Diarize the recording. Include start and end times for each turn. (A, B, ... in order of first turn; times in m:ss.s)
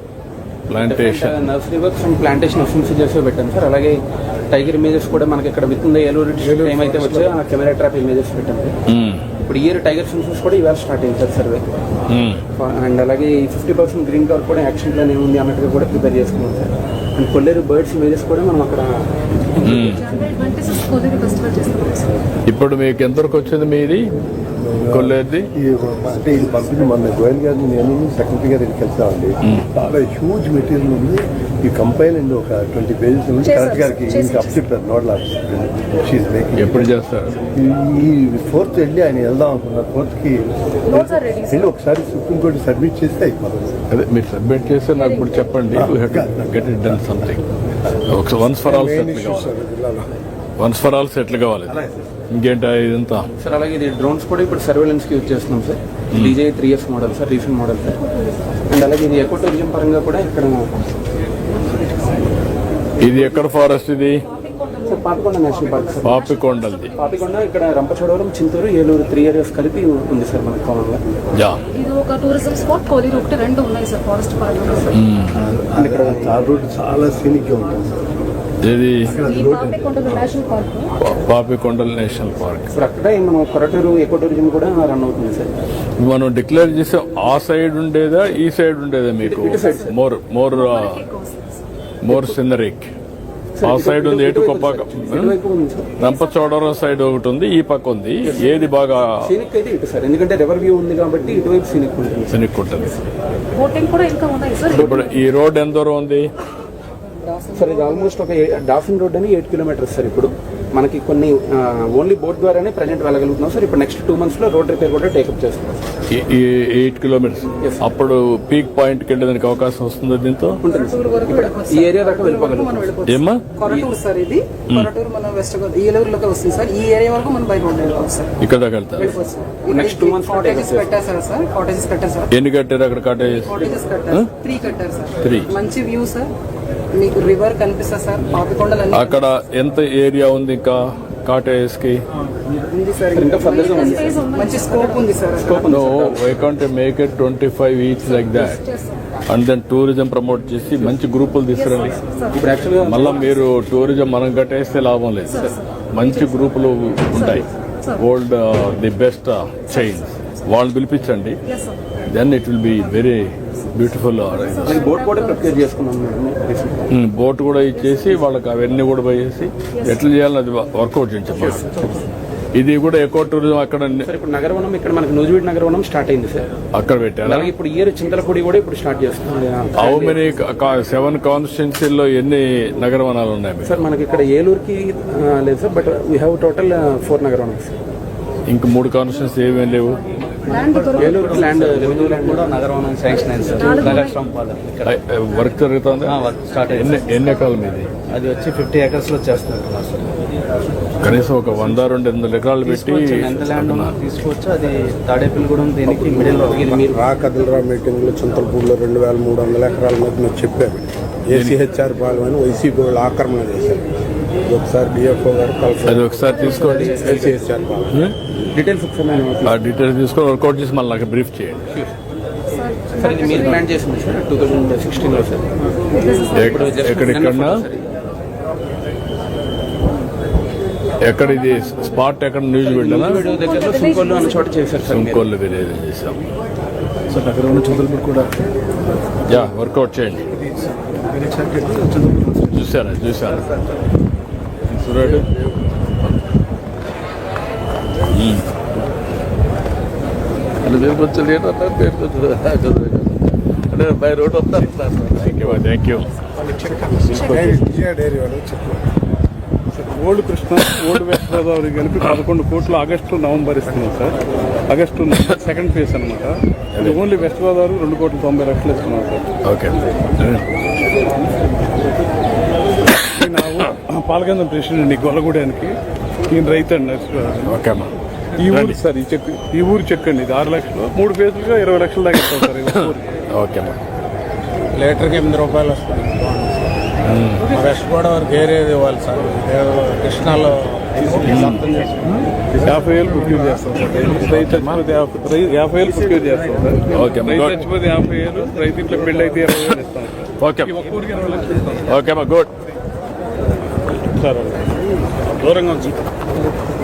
0:00.7-0:01.4 A
0:00.8-0:04.0 B
0:04.5-0:08.7 B
0:06.4-0:07.4 C
0:08.9-0:09.2 A
0:09.4-0:11.6 B
0:12.1-0:12.4 A
0:12.6-0:19.0 B
0:19.6-0:20.0 B
0:19.6-0:22.3 D
0:19.6-0:20.0 A
0:22.5-0:24.0 A
0:24.6-0:36.9 E
0:24.9-0:25.5 A
0:33.4-0:34.7 D
0:36.6-0:37.3 A
0:37.5-0:43.8 E
0:40.9-0:41.7 D
0:43.9-0:47.4 A
0:44.9-0:45.4 D
0:45.7-0:47.3 E
0:48.1-0:49.6 A
0:48.6-0:50.0 C
0:50.6-0:53.2 A
0:53.4-0:58.0 B
0:58.7-1:00.7 B
1:03.0-1:04.2 A
1:04.3-1:07.3 D
1:04.8-1:06.2 B
1:06.0-1:06.9 A
1:06.9-1:11.0 B
1:11.3-1:11.6 A
1:11.7-1:15.0 D
1:14.9-1:15.4 A
1:15.3-1:18.1 E
1:15.8-1:16.4 B
1:18.6-1:19.1 A
1:19.0-1:20.2 E
1:19.2-1:20.9 D
1:21.0-1:22.7 A
1:22.7-1:25.5 B
1:26.0-1:31.0 A
1:29.2-1:29.9 B
1:29.6-1:29.9 D
1:30.5-1:31.6 D
1:32.0-1:32.9 A
1:33.6-1:35.9 B
1:33.6-1:35.3 A
1:36.0-1:39.1 A
1:36.0-1:36.6 D
1:38.2-1:42.4 B
1:42.3-1:43.1 A
1:43.5-1:45.2 D
1:44.7-1:46.3 A
1:47.5-1:55.8 B
1:56.1-2:00.6 A
2:00.6-2:03.0 B
2:00.6-2:08.3 F
2:03.0-2:03.4 A
2:03.6-2:03.9 B
2:08.4-2:09.1 A
2:09.0-2:12.3 F
2:09.6-2:10.9 B
2:12.3-2:13.6 A
2:13.3-2:16.3 F
2:15.2-2:15.5 A
2:16.9-2:19.2 F
2:18.9-2:22.0 A
2:22.5-2:25.7 F
2:23.1-2:24.1 B
2:23.4-2:25.2 D
2:25.4-2:26.4 B
2:25.7-2:28.6 A
2:28.5-2:28.9 D
2:29.3-2:32.0 A
2:31.5-2:33.4 D
2:32.3-2:33.3 B
2:32.8-2:37.4 A
2:35.3-2:36.4 D
2:37.1-2:38.0 D
2:38.0-2:41.4 A
2:39.7-2:40.4 D
2:41.4-2:41.8 D
2:42.1-2:44.8 A
2:44.3-2:45.7 D
2:44.6-2:46.8 B
2:46.9-2:51.7 A
2:47.8-2:48.2 D
2:49.7-2:50.0 D
2:51.4-2:51.8 B
2:52.5-2:54.1 A
2:54.0-2:56.5 B
2:56.7-2:57.5 A
2:57.2-3:00.3 B
2:59.8-3:03.7 A
3:03.6-3:07.8 B
3:08.5-3:10.0 A
3:10.4-3:11.6 D
3:10.9-3:12.5 B
3:11.0-3:14.9 G
3:13.4-3:14.2 D
3:13.7-3:14.0 B
3:14.8-3:17.9 A
3:16.0-3:17.0 G
3:16.9-3:17.5 D
3:18.1-3:20.2 G
3:21.0-3:24.0 A
3:22.6-3:26.9 G
3:25.9-3:27.0 B
3:27.0-3:33.8 C
3:34.4-3:38.1 C
3:35.8-3:37.3 A
3:36.2-3:37.3 D
3:36.7-3:37.4 B
3:38.5-3:39.6 B
3:39.4-3:41.7 A
3:42.5-3:43.7 D
3:43.0-3:47.8 B
3:45.9-3:46.9 D
3:46.3-3:47.6 A
3:51.0-3:53.2 A
3:51.1-3:52.1 D
3:52.6-3:55.3 B
3:53.0-3:54.5 D
3:54.9-3:56.2 A
3:57.1-3:58.2 A
3:59.3-4:00.2 A
4:01.1-4:02.3 C
4:02.5-4:03.5 A
4:04.7-4:05.3 A
4:08.1-4:08.6 A
4:10.6-4:16.1 A
4:16.4-4:18.9 C
4:16.6-4:17.7 D
4:17.0-4:17.6 A
4:19.7-4:29.2 H
4:26.7-4:27.0 A
4:29.4-4:30.5 A
4:33.0-4:35.7 H
4:36.3-4:37.6 H
4:37.4-4:37.9 A
4:38.4-4:43.1 H
4:38.4-4:38.8 A
4:42.7-4:43.8 A
4:44.7-4:46.8 C
4:47.0-4:47.5 A
4:47.4-4:52.2 C
4:51.1-5:00.1 H
4:51.3-4:51.6 A
4:54.2-4:54.7 A
4:56.9-4:57.6 A
5:00.4-5:00.8 A
5:00.6-5:01.9 H
5:01.8-5:02.5 A
5:04.1-5:04.7 H
5:05.4-5:05.8 H